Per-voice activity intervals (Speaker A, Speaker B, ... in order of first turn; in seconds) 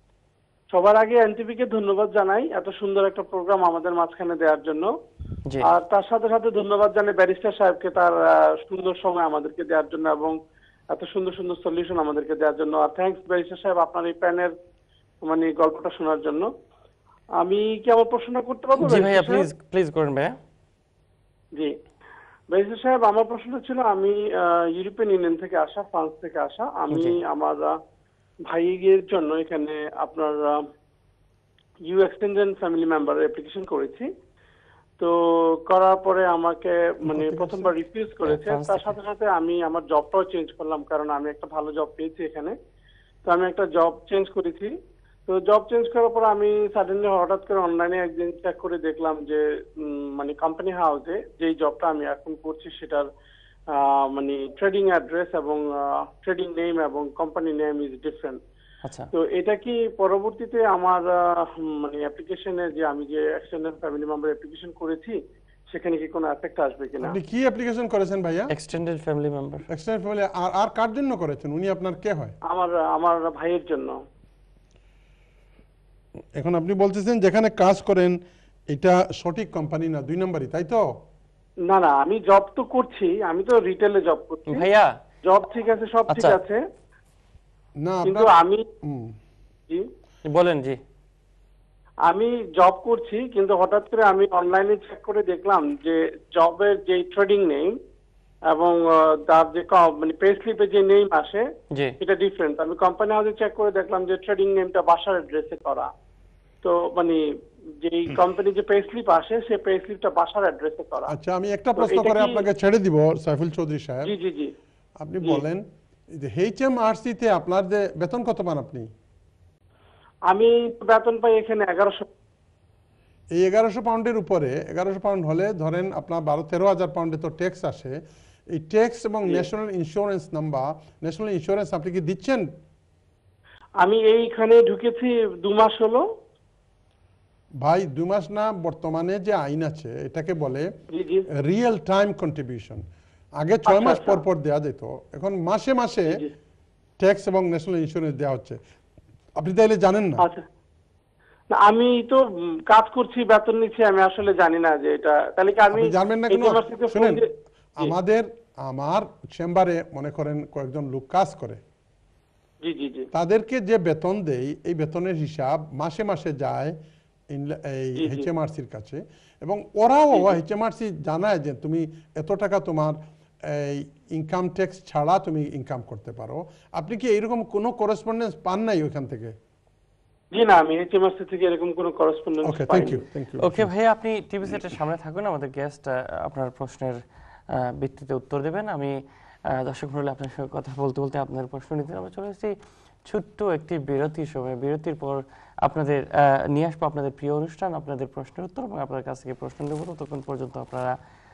Speaker A: 0.7-4.9, 5.7-10.4, 10.9-14.5, 15.2-16.5, 17.4-19.5, 22.5-27.7, 28.5-30.6, 31.9-34.1, 35.7-42.5, 43.3-44.7, 45.3-53.1, 53.7-58.4, 59.1-65.2, 65.7-67.2, 72.5-74.0, 81.7-84.7, 85.2-86.6, 88.1-88.7, 92.1-97.8, 98.5-101.4, 102.0-105.9, 106.6-107.2, 107.8-111.1, 111.8-112.5, 114.1-114.5, 120.3-122.1, 133.8-136.1, 140.9-141.3, 143.7-144.2, 151.5-157.3, 162.6-163.1, 168.0-168.3, 170.1-170.4, 180.3-183.0
Speaker B: 18.8-20.4, 26.9-27.2, 38.2-39.0, 68.5-69.7, 84.5-84.9, 86.1-86.4, 90.3-90.8, 183.4-187.0, 187.6-189.0, 189.5-192.6, 193.1-200.9
Speaker C: 37.1-37.7, 67.0-68.5, 69.7-72.3, 76.4-80.9, 87.8-88.3, 88.8-89.2, 111.1-114.1, 115.0-118.9, 123.3-128.0, 128.5-132.5, 137.6-140.7, 141.4-142.8, 143.4-146.1, 147.0-148.6, 149.4-150.2, 155.7-157.2, 157.8-161.6, 163.1-166.8, 167.3-179.3, 182.4-183.7